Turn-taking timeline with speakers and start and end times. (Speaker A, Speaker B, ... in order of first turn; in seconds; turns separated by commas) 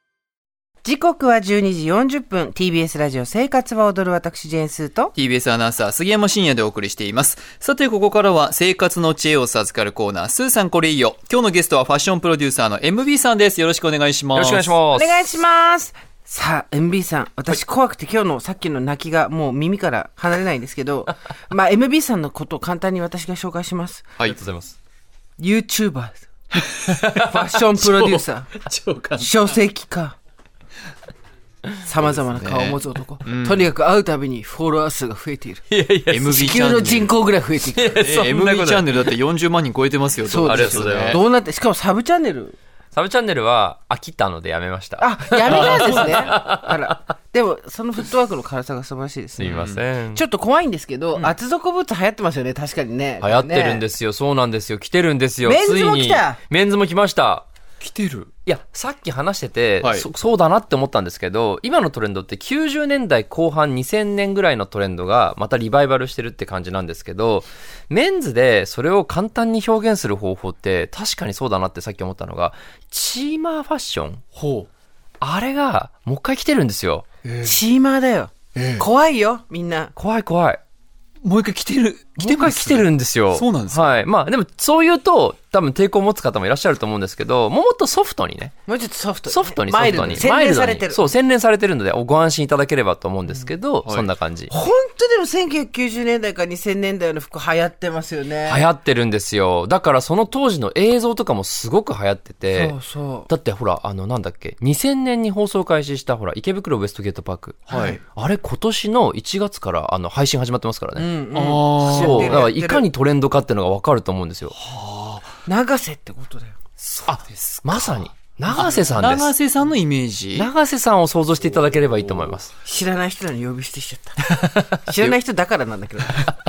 Speaker A: 0.8-5.1, Speaker B: 5.1-14.8, Speaker C: 14.3-15.3, Speaker A: 14.9-24.1, Speaker C: 24.2-24.7, Speaker A: 25.4-26.2, Speaker B: 26.6-27.2, Speaker C: 26.9-27.3, Speaker A: 27.2-28.5, Speaker B: 27.8-29.3, Speaker A: 29.2-30.2, Speaker A: 31.8-35.6, Speaker B: 32.0-33.7, Speaker C: 35.7-36.6, Speaker B: 36.1-37.1, Speaker A: 36.3-38.0, Speaker C: 37.7-39.1, Speaker B: 38.0-41.2, Speaker A: 40.2-42.5, Speaker C: 40.4-41.2, Speaker C: 42.9-46.7, Speaker A: 45.0-49.5, Speaker B: 45.4-46.4, Speaker C: 49.4-50.2, Speaker B: 49.4-49.8, Speaker A: 50.1-53.8, Speaker C: 53.2-57.5, Speaker A: 55.4-56.4, Speaker B: 57.8-58.3, Speaker C: 58.5-74.2, Speaker B: 59.8-60.1, Speaker B: 74.3-74.7, Speaker C: 75.2-77.0, Speaker B: 77.2-77.5, Speaker A: 77.4-79.9, Speaker B: 78.5-78.8, Speaker C: 80.0-80.6, Speaker B: 81.2-84.0, Speaker C: 82.2-88.5, Speaker A: 88.7-91.0, Speaker C: 89.3-94.5, Speaker B: 89.9-90.2, Speaker A: 94.5-98.6, Speaker C: 98.4-102.7, Speaker A: 102.5-103.3, Speaker C: 103.3-111.1, Speaker B: 107.7-108.0, Speaker A: 107.7-108.0, Speaker A: 111.0-112.8, Speaker B: 111.3-112.5, Speaker C: 111.8-114.5, Speaker B: 114.5-115.3, Speaker A: 115.5-116.5, Speaker C: 116.8-119.3, Speaker B: 117.1-120.5, Speaker C: 120.3-122.5, Speaker A: 122.6-126.2